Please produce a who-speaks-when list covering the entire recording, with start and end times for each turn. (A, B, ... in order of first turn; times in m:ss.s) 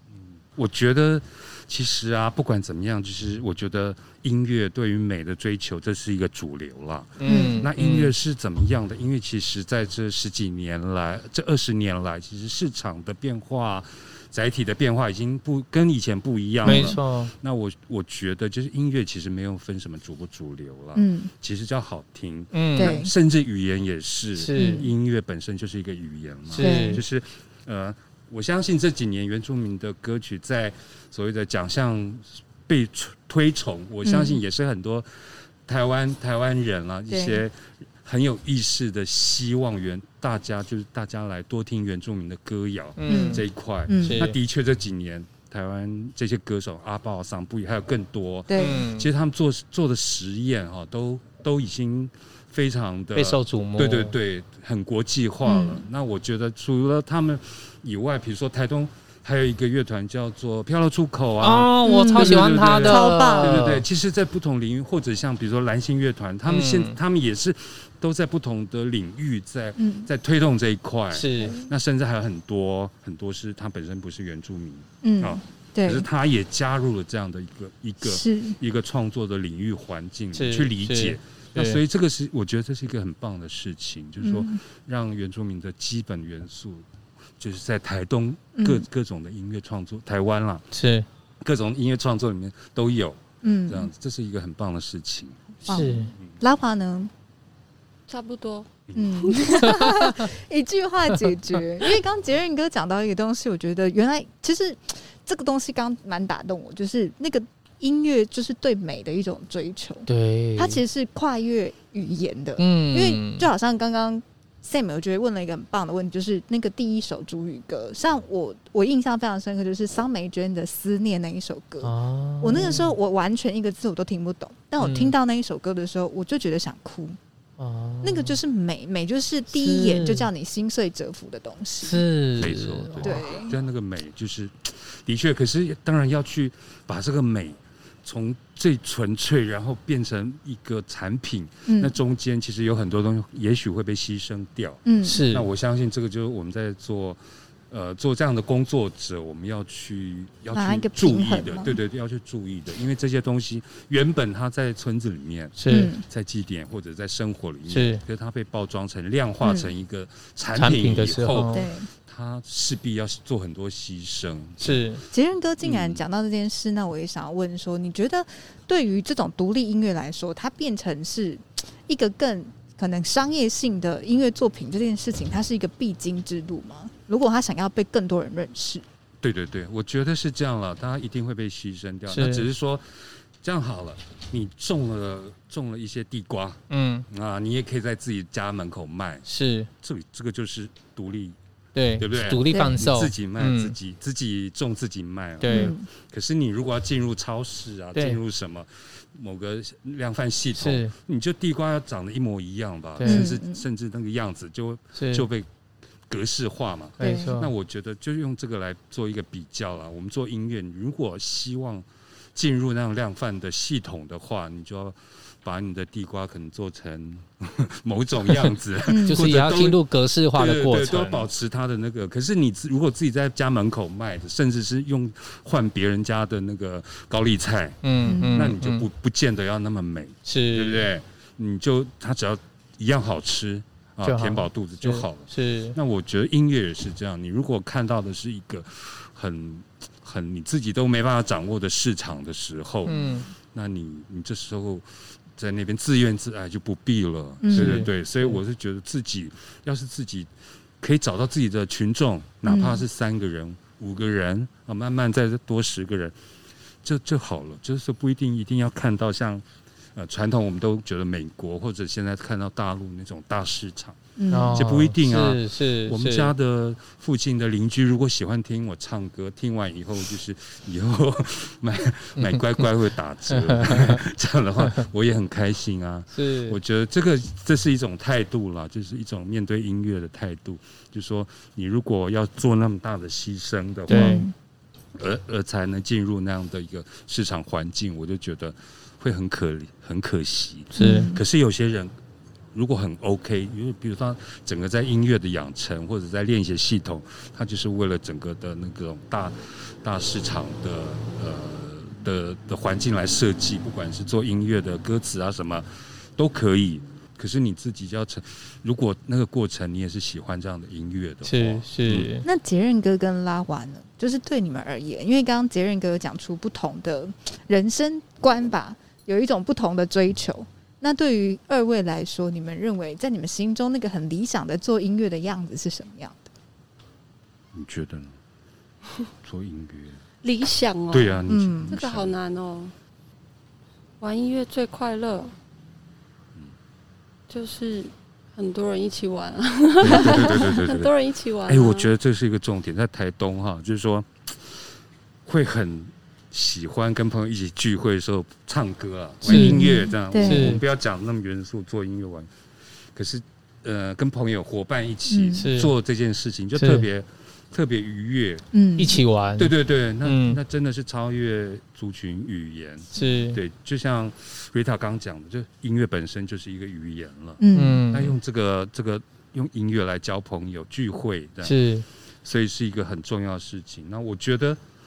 0:00.2-1:26.9 A
0:07.2-0:08.1 B
0:07.2-0:07.6 C
0:16.6-0:17.0 C
0:16.6-0:17.3 B
0:21.0-0:21.3 C
0:22.5-0:23.0 B
0:22.8-0:23.1 C
0:24.4-0:24.9 B
0:24.6-0:24.9 C
0:26.5-0:27.0 B
0:26.6-0:27.0 C
0:34.0-0:34.4 C
0:37.1-0:37.4 C
0:43.0-0:43.4 B
0:43.1-0:44.3 C
0:44.0-0:44.4 B
0:48.5-0:48.8 C
0:48.6-0:49.1 B
0:53.2-0:54.2 B
0:55.4-0:55.8 C
1:01.4-1:03.8 B
1:01.8-1:03.6 C
1:06.5-1:07.0 B
1:09.8-1:10.1 C
1:11.1-1:11.6 B
1:11.4-1:11.7 C
1:15.0-1:16.1 C
1:18.0-1:18.6 C
1:20.3-1:21.8 B
1:24.2-1:24.6 C
1:27.4-1:30.7 A
1:28.6-1:28.9 C
1:30.7-1:31.1 B
1:31.4-1:35.6 A
1:33.4-1:33.9 C
1:35.7-1:37.1 C
1:35.7-1:36.1 B
1:38.1-1:38.7 D
1:38.9-1:39.3 A
1:39.0-2:07.2 C
1:39.5-1:40.3 B
1:50.1-1:50.8 B
1:52.6-1:53.5 B
2:01.8-2:02.9 B
2:04.8-2:05.1 B
2:07.6-2:08.4 B
2:08.0-2:12.1 C
2:09.5-2:10.3 B
2:11.8-2:13.2 B
2:12.4-2:45.0 A
2:13.0-2:13.6 C
2:21.7-2:22.0 C
2:24.9-2:25.2 C
2:25.0-2:25.5 B
2:30.5-2:31.8 C
2:35.6-2:35.9 B
2:35.7-2:36.0 C
2:37.7-2:38.0 B
2:39.4-2:39.7 C
2:40.6-2:41.7 B
2:41.5-2:41.9 C
2:44.6-2:45.0 B
2:45.1-2:58.8 C
2:45.6-2:46.0 A
2:59.2-3:02.8 A
3:02.1-3:02.5 B
3:03.4-3:09.3 A
3:06.7-3:07.1 B
3:09.3-3:09.7 B
3:09.8-3:11.4 A
3:11.8-3:13.8 B
3:12.0-3:25.5 A
3:12.5-3:12.8 C
3:15.4-3:15.7 B
3:15.5-3:15.9 C
3:18.0-3:18.2 B
3:20.6-3:20.9 B
3:23.0-3:23.3 B
3:23.0-3:23.6 C
3:25.0-3:25.3 B
3:26.1-3:39.8 A
3:27.0-3:27.5 B
3:27.0-3:27.4 C
3:38.9-3:39.2 C
3:39.1-3:41.3 B
3:40.3-4:16.2 A
3:47.8-3:48.9 B
3:48.0-3:48.4 C
3:50.3-3:50.8 B
3:54.0-3:55.8 B
4:02.8-4:03.3 C
4:02.9-4:03.3 B
4:07.4-4:07.9 C
4:07.5-4:08.4 B
4:12.4-4:12.8 C
4:16.8-4:24.0 A
4:24.2-4:24.7 C
4:24.3-4:26.3 B
4:24.5-4:44.2 A
4:32.2-4:32.6 B
4:33.3-4:34.0 B
4:36.1-4:36.6 B
4:43.9-4:44.3 B
4:43.9-4:44.3 C
4:45.0-4:51.9 A
4:50.7-4:51.2 C
4:50.8-4:51.1 B
4:52.5-5:12.1 A
5:11.2-5:12.3 B
5:12.2-5:26.3 C
5:27.5-5:28.2 A
5:29.2-5:30.0 A
5:30.2-5:31.2 D
5:30.9-5:32.1 A
5:31.3-5:31.7 C
5:31.7-5:32.7 D
5:34.0-5:35.3 D
5:37.3-5:41.9 D
5:39.8-5:40.9 A
5:41.5-5:44.7 A
5:45.3-5:52.3 A
5:49.2-5:50.6 C
5:49.3-5:50.6 B
5:53.0-5:58.4 A
5:55.1-5:55.5 C
5:55.4-5:55.7 B
5:56.6-5:56.8 B
5:58.5-5:59.0 C
5:58.8-6:00.4 B
5:59.4-6:11.6 A
6:03.0-6:03.4 B
6:07.4-6:07.9 C
6:07.5-6:08.1 B
6:11.4-6:11.8 B
6:12.2-6:14.6 A